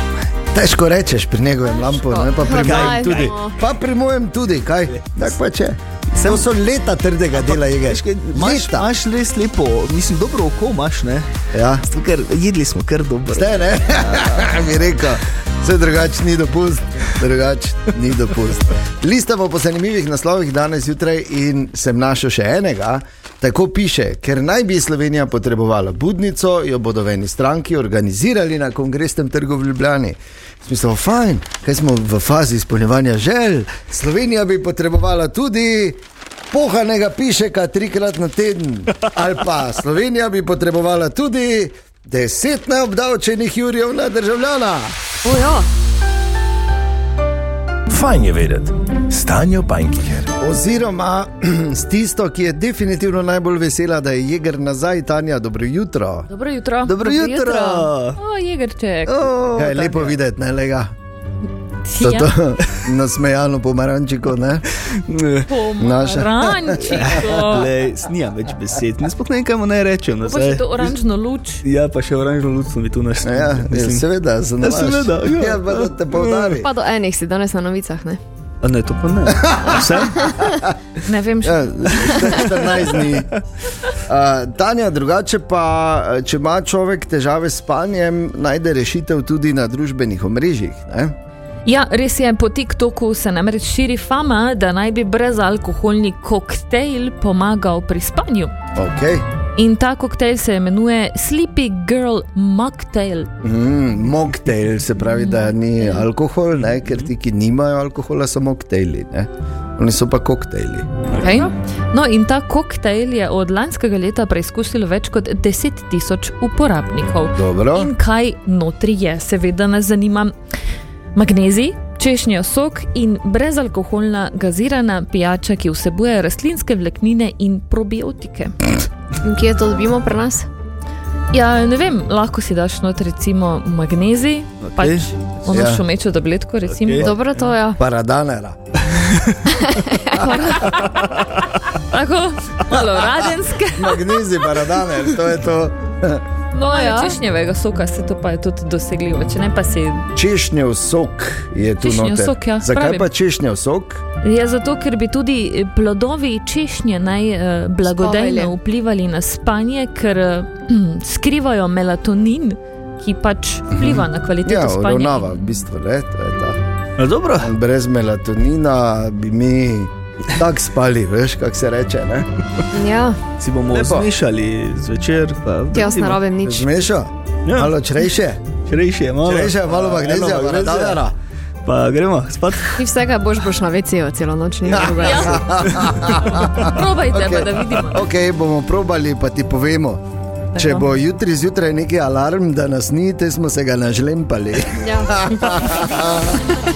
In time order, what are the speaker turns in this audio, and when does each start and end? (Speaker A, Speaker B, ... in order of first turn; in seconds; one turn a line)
Speaker A: 0.5-8.9
Speaker B: 1.7-3.6
Speaker C: 2.5-3.4
Speaker C: 4.9-5.3
Speaker C: 7.4-11.3
Speaker A: 11.5-11.8
Speaker C: 11.8-14.5
Speaker A: 13.3-45.0
Speaker B: 45.2-45.7
Speaker D: 47.9-50.3
Speaker A: 50.4-56.3
Speaker E: 56.3-59.3
Speaker C: 56.9-58.2
Speaker A: 59.1-60.9
Speaker C: 59.6-60.1
Speaker E: 61.9-62.3
Speaker A: 62.0-64.7
Speaker C: 64.9-65.5
Speaker E: 65.5-67.7
Speaker A: 65.8-67.5
Speaker C: 66.8-71.0
Speaker E: 70.2-71.6
Speaker C: 71.6-74.0
Speaker A: 73.2-76.7
Speaker C: 74.6-76.5
Speaker B: 76.5-78.2
Speaker C: 78.6-80.4
Speaker A: 79.3-80.8
Speaker E: 81.1-81.9
Speaker A: 81.4-83.3
Speaker C: 82.1-82.5
Speaker A: 84.1-91.1
Speaker E: 91.7-98.5
Speaker A: 98.8-99.2
Speaker E: 99.6-103.3
Speaker A: 103.4-110.9
Speaker E: 105.1-106.1
Speaker E: 111.2-120.3
Speaker A: 117.3-117.9
Speaker E: 121.2-128.6
Speaker B: 129.2-130.5
Speaker E: 131.3-137.1
Speaker C: 134.6-135.1
Speaker A: 135.5-135.8
Speaker C: 136.7-137.3
Speaker B: 137.0-137.8
Speaker A: 137.8-138.6
Speaker C: 138.9-139.3
Speaker B: 139.5-140.3
Speaker E: 140.2-141.1
Speaker A: 140.2-140.9
Speaker C: 140.9-141.4
Speaker E: 141.9-144.1
Speaker A: 143.8-146.2
Speaker E: 146.5-150.1
Speaker B: 146.6-147.2
Speaker A: 150.2-154.0
Speaker E: 151.8-153.1
Speaker E: 154.2-165.6
Speaker B: 158.0-158.5
Speaker A: 163.8-166.6
Speaker C: 167.0-167.5
Speaker A: 167.4-172.3
Speaker B: 172.7-173.2
Speaker C: 173.4-176.2
Speaker A: 173.7-174.1
Speaker B: 175.7-176.7
Speaker A: 176.4-178.5
Speaker C: 177.5-177.8
Speaker C: 178.7-181.1
Speaker A: 179.2-181.1
Speaker C: 181.7-182.8
Speaker B: 182.8-185.8
Speaker A: 184.7-190.0
Speaker E: 185.0-185.4
Speaker C: 185.5-186.4
Speaker E: 186.1-188.1
Speaker E: 190.6-190.9
Speaker A: 190.6-196.4
Speaker B: 194.8-196.0